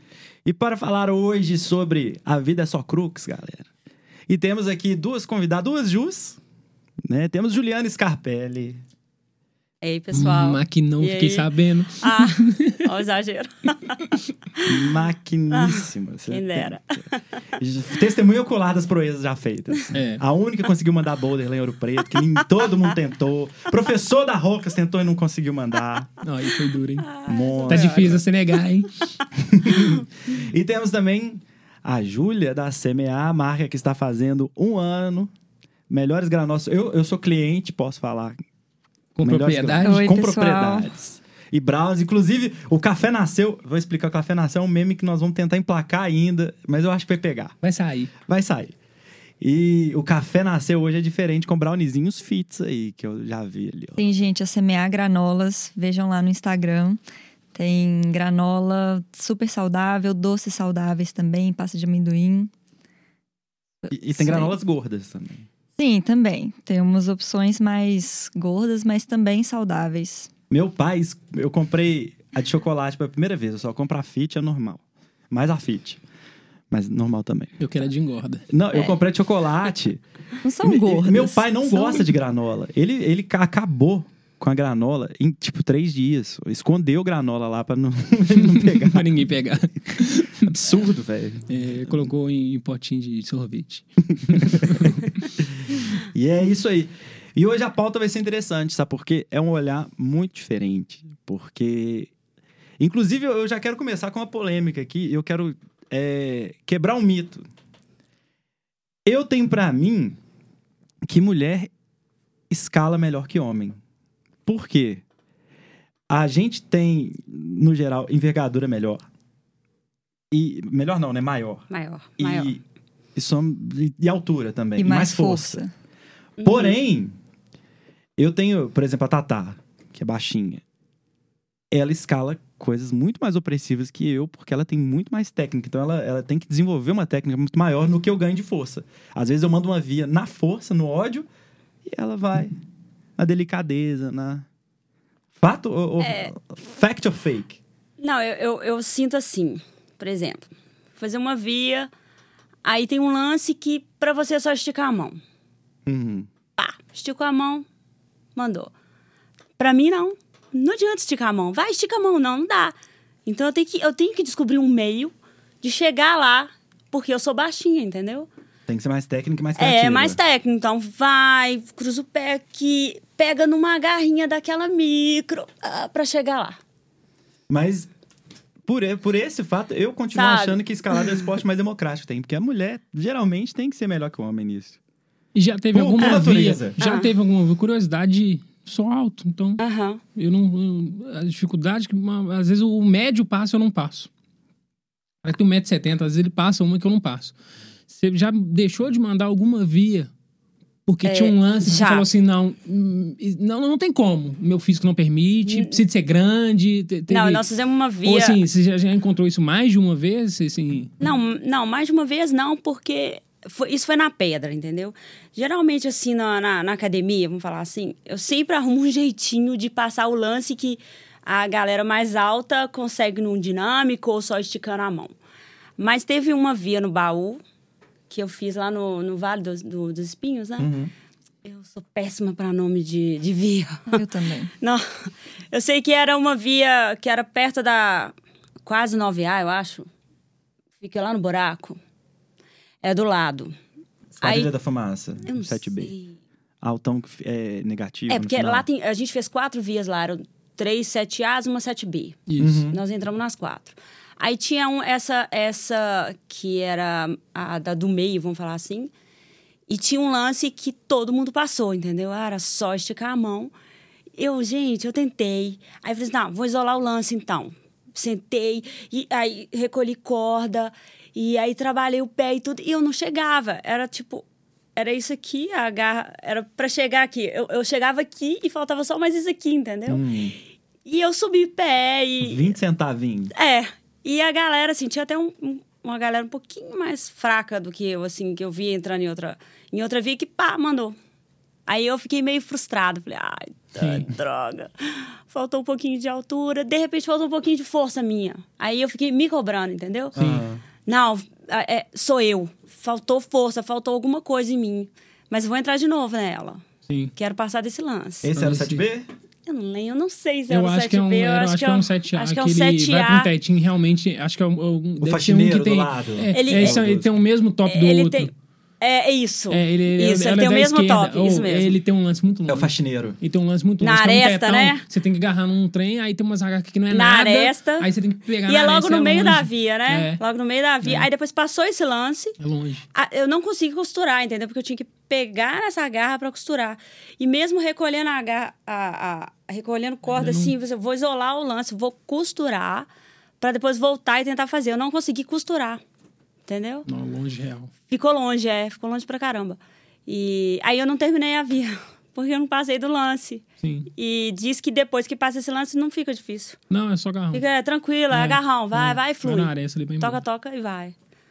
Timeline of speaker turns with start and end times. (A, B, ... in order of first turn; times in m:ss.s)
0:00.4-0:03.7 A
0:04.3-0:06.4 A
0:07.0-0:08.8 A
0:09.8-0:11.5 B
0:10.1-0:12.9 C
0:12.0-0:14.6 B
0:14.6-0:17.0 A
0:15.5-0:17.2 B
0:17.6-0:26.1 A
0:19.9-0:20.2 C
0:26.2-0:27.1 C
0:27.0-0:28.2 B
0:27.3-0:28.2 A
0:27.7-0:29.1 C
0:29.4-0:35.3 A
0:35.9-0:38.4 A
0:39.2-0:40.0 C
0:39.2-0:47.6 A
0:39.8-0:40.9 D
0:47.6-0:48.1 C
0:48.3-0:48.7 A
0:49.4-0:54.0 A
0:54.0-0:57.0 D
0:57.5-1:02.5 D
1:03.8-1:04.6 D
1:03.9-1:05.5 A
1:05.8-1:10.3 D
1:10.5-1:16.0 A
1:16.7-1:17.6 A
1:17.6-1:18.4 C
1:18.5-1:20.0 A
1:20.4-1:22.1 D
1:20.6-1:29.0 A
1:28.4-1:30.5 C
1:30.4-1:31.5 A
1:31.5-1:35.2 C
1:34.1-1:35.1 A
1:35.8-1:42.1 A
1:42.8-1:47.4 A
1:49.1-1:50.2 A
1:51.0-1:51.7 A
1:52.5-1:53.8 A
1:54.5-1:55.0 A
1:56.1-1:59.0 A
2:00.3-2:01.7 A
2:01.7-2:02.6 B
2:02.2-2:02.6 A
2:03.2-2:05.6 A
2:04.8-2:05.7 D
2:06.4-2:06.8 B
2:06.4-2:07.2 A
2:08.2-2:10.6 A
2:11.7-2:21.3 A
2:21.9-2:22.5 A
2:23.2-2:24.4 A
2:25.4-2:27.6 A
2:26.0-2:26.3 B
2:28.0-2:31.9 B
2:32.6-2:35.2 B
2:35.9-2:36.3 A
2:36.6-2:37.7 B
2:38.4-2:38.7 B
2:39.6-2:42.7 B
2:43.3-2:48.3 B
2:48.7-2:50.2 A
2:49.6-2:56.6 B
2:57.5-2:57.9 A
2:58.7-3:04.8 A
3:00.1-3:01.2 B
3:05.4-3:09.6 C
3:05.7-3:06.8 A
3:06.0-3:06.2 B
3:06.8-3:07.1 B
3:09.6-3:10.0 B
3:10.2-3:14.1 C
3:15.2-3:17.4 C
3:17.9-3:20.1 C
3:20.9-3:27.4 C
3:21.0-3:22.1 B
3:25.4-3:25.8 B
3:27.1-3:28.4 B
3:28.0-3:30.9 C
3:31.0-3:45.2 B
3:45.8-3:47.4 B
3:48.1-3:50.7 B
3:50.6-3:50.9 A
3:51.4-3:54.0 B
3:53.9-3:54.5 D
3:54.6-3:58.1 B
3:58.6-3:59.9 B
4:00.8-4:01.8 B
4:02.8-4:03.6 B
4:04.2-4:05.9 A
4:04.2-4:04.5 B
4:05.2-4:06.2 B
4:06.6-4:08.6 A
4:08.1-4:18.9 B
4:12.3-4:12.6 C
4:12.4-4:12.8 A
4:19.7-4:23.5 B
4:24.2-4:34.2 B
4:34.8-4:40.0 B
4:39.9-4:40.4 A
4:40.8-4:42.5 B
4:42.2-4:43.3 A
4:43.4-4:51.0 B
4:51.7-5:00.2 B
4:53.8-4:54.1 C
5:00.2-5:00.6 A
5:00.9-5:06.6 B
5:06.9-5:07.1 C
5:07.2-5:08.3 B
5:08.2-5:09.1 A
5:08.4-5:08.8 C
5:09.5-5:13.3 B
5:10.5-5:18.3 C
5:15.0-5:17.1 A
5:16.3-5:16.8 B
5:17.7-5:21.7 B
5:19.5-5:30.2 C
5:22.5-5:23.2 A
5:23.8-5:24.8 B
5:26.9-5:27.9 B
5:28.5-5:32.4 B
5:30.8-5:31.1 C
5:32.4-5:32.8 C
5:32.9-5:42.9 B
5:40.1-5:40.5 C
5:43.4-5:45.8 B
5:46.5-5:46.9 B
5:46.9-5:47.7 C
5:47.9-5:56.6 B
5:53.6-5:53.9 C
5:56.7-5:57.4 C
5:57.3-6:01.0 B
5:58.1-6:00.2 C